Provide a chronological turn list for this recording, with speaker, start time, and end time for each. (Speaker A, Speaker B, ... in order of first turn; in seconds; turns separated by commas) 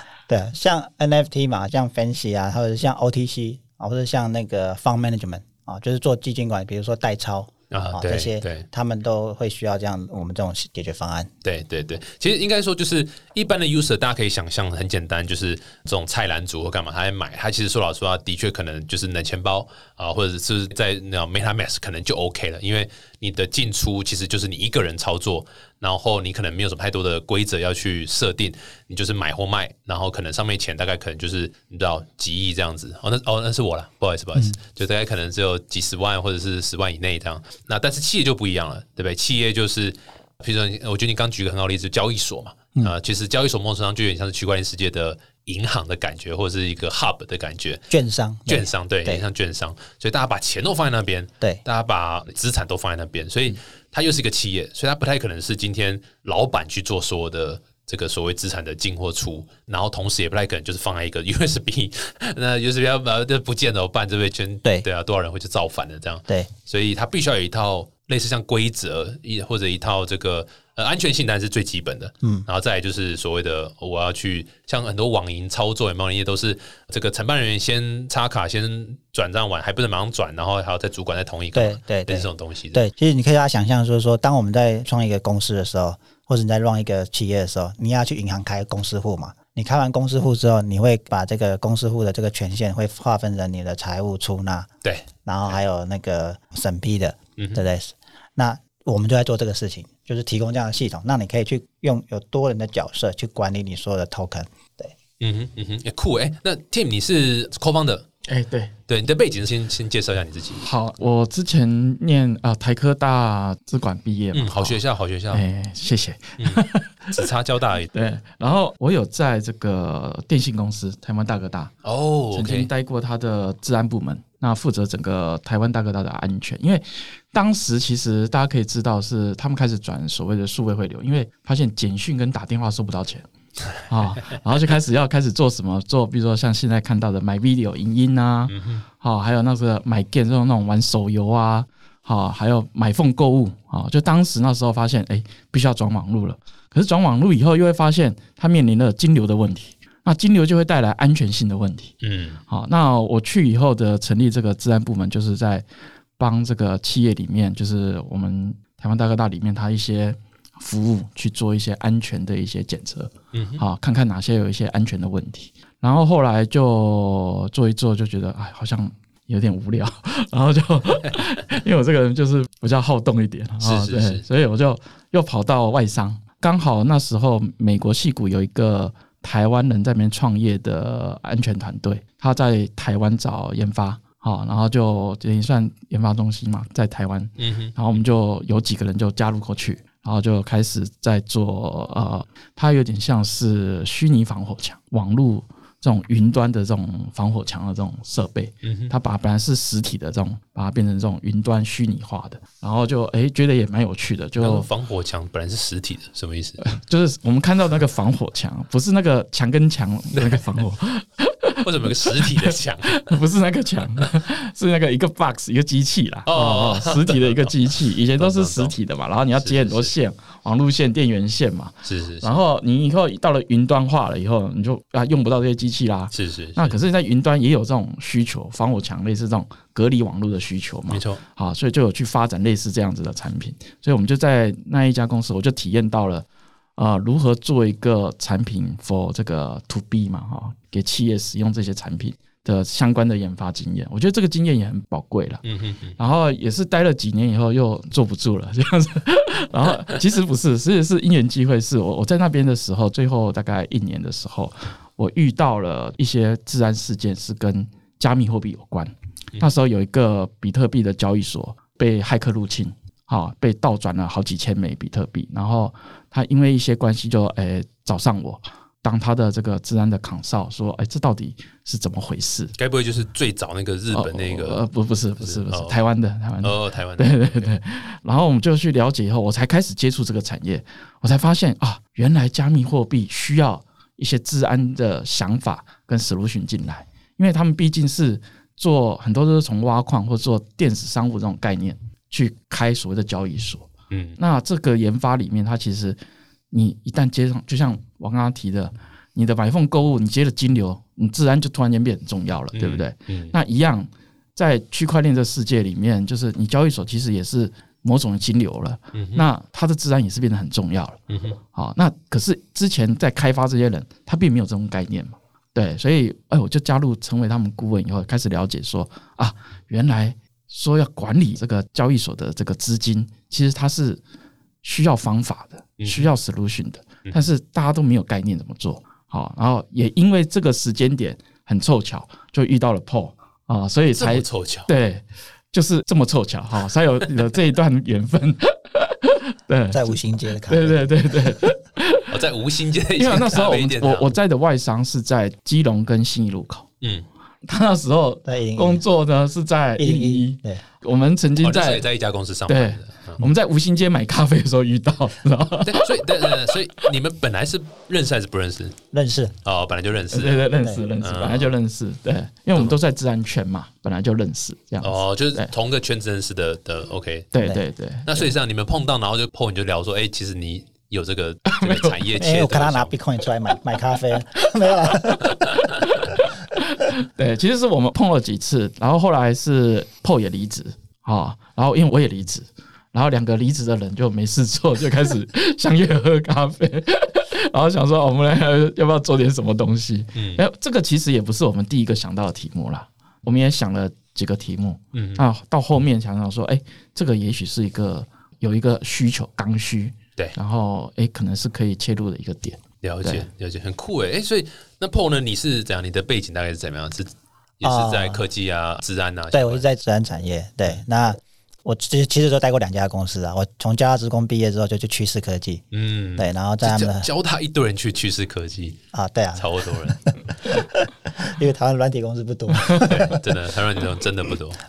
Speaker A: 0.3-11.3, Speaker B: 7.7-8.7, Speaker B: 11.4-47.9, Speaker A: 47.9-49.2, Speaker B: 48.5-82.8, Speaker A: 81.5-94.7, Speaker B: 94.8-95.6, Speaker A: 95.2-104.9, Speaker B: 97.4-97.6, Speaker B: 105.2-108.1, Speaker C: 108.3-108.7, Speaker B: 108.9-110.6, Speaker C: 110.6-114.8, Speaker B: 114.3-115.4, Speaker C: 115.3-117.1, Speaker B: 116.4-117.9, Speaker C: 117.9-121.7, Speaker B: 121.8-122.7, Speaker C: 122.3-151.9, Speaker B: 138.5-138.8, Speaker B: 152.0-152.4, Speaker C: 152.5-155.7, Speaker C: 156.2-204.7, Speaker B: 163.3-163.6, Speaker B: 173.6-174.2, Speaker B: 187.4-187.8, Speaker B: 198.6-198.9, Speaker B: 204.4-206.7, Speaker C: 206.6-236.3, Speaker B: 210.2-210.4, Speaker B: 211.6-213.2, Speaker B: 216.3-217.6, Speaker B: 218.2-218.8, Speaker B: 219.4-219.9, Speaker B: 221.8-222.3, Speaker B: 226.1-226.7, Speaker B: 230.9-231.2, Speaker C: 236.8-245.4, Speaker B: 245.4-246.0, Speaker C: 246.0-272.5, Speaker B: 272.6-274.6, Speaker C: 273.9-296.0, Speaker B: 275.2-275.8, Speaker B: 276.4-277.5, Speaker B: 293.9-294.2, Speaker C: 296.5-311.0, Speaker B: 302.5-303.3, Speaker B: 308.9-309.3, Speaker B: 311.1-311.4, Speaker C: 311.5-324.0, Speaker C: 324.6-342.1, Speaker B: 325.8-326.1, Speaker B: 334.0-334.7, Speaker A: 339.7-340.8, Speaker B: 342.1-344.1, Speaker C: 343.0-346.7, Speaker C: 347.4-351.9, Speaker A: 348.2-348.8, Speaker A: 349.8-350.6, Speaker B: 351.4-353.2, Speaker C: 352.5-356.4, Speaker B: 355.6-358.8, Speaker A: 358.9-359.4, Speaker B: 359.4-360.4, Speaker C: 360.1-365.5, Speaker B: 361.0-361.5, Speaker B: 364.8-367.3, Speaker C: 367.3-368.1, Speaker B: 368.1-372.9, Speaker C: 371.5-372.0, Speaker A: 372.2-375.4, Speaker B: 375.3-375.6, Speaker C: 376.6-403.3, Speaker B: 390.1-390.4, Speaker B: 394.9-395.2, Speaker B: 402.8-409.6, Speaker A: 407.6-408.2, Speaker A: 409.3-415.6, Speaker B: 415.7-418.8, Speaker A: 416.2-417.1, Speaker A: 418.9-423.2, Speaker B: 419.4-420.1, Speaker B: 422.7-424.6